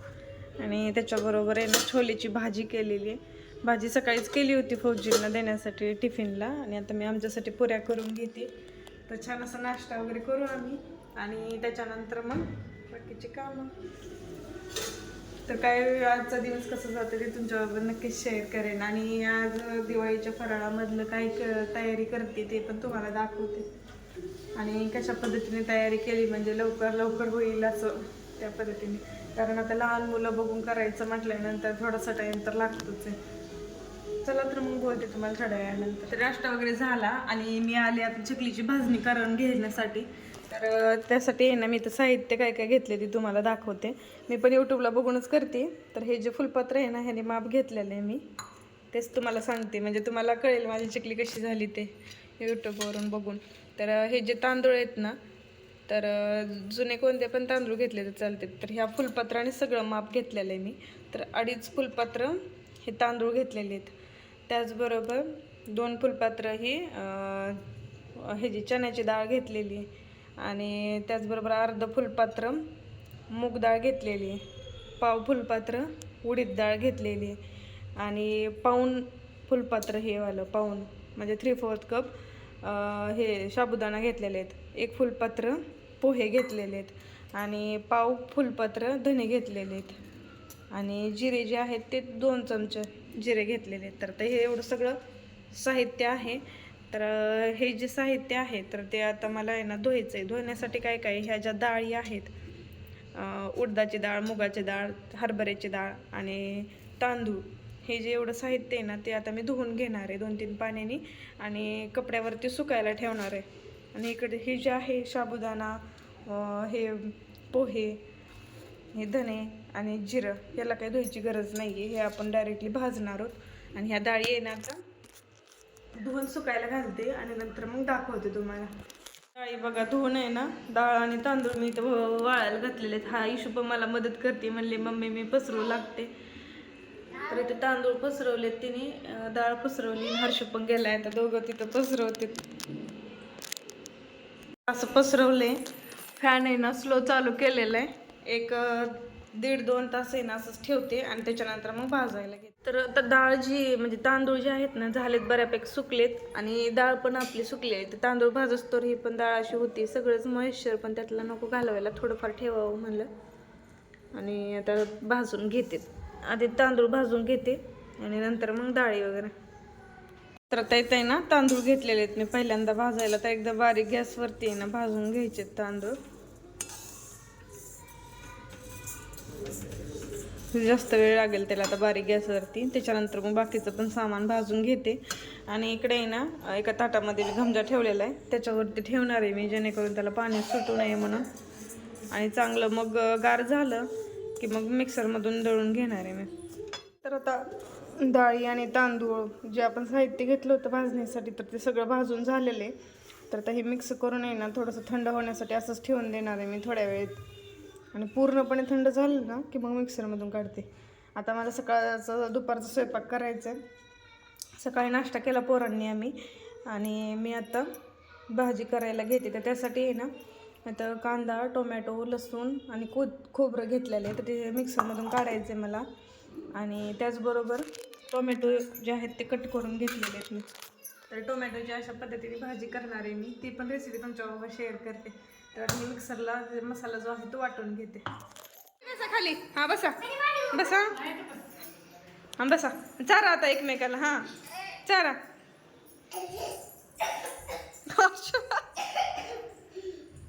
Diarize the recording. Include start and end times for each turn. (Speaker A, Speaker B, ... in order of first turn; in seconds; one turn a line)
Speaker A: 0.6-8.5
Speaker A: 9.1-13.7
Speaker A: 15.4-23.6
Speaker A: 24.5-33.2
Speaker A: 34.2-48.2
Speaker A: 48.9-55.2
Speaker A: 55.9-63.9
Speaker A: 64.5-67.6
Speaker A: 68.1-69.9
Speaker A: 70.4-72.7
Speaker A: 73.3-74.4
Speaker A: 75.0-77.4
Speaker A: 78.0-90.0
Speaker A: 90.7-95.0
Speaker A: 95.5-102.3
Speaker A: 103.1-118.0
Speaker A: 118.9-124.8
Speaker A: 126.0-128.7
Speaker A: 129.3-136.1
Speaker A: 137.2-142.4
Speaker A: 144.7-145.6
Speaker A: 146.2-163.1
Speaker A: 164.1-169.3
Speaker A: 170.5-176.0
Speaker A: 180.5-191.3
Speaker A: 192.1-196.3
Speaker A: 197.0-202.8
Speaker A: 203.3-207.2
Speaker A: 207.9-213.6
Speaker A: 214.6-216.2
Speaker A: 216.7-217.7
Speaker A: 218.3-220.1
Speaker A: 220.7-225.8
Speaker A: 226.5-230.6
Speaker A: 231.1-238.0
Speaker A: 238.8-241.4
Speaker A: 242.4-244.3
Speaker A: 244.8-245.2
Speaker A: 247.8-248.6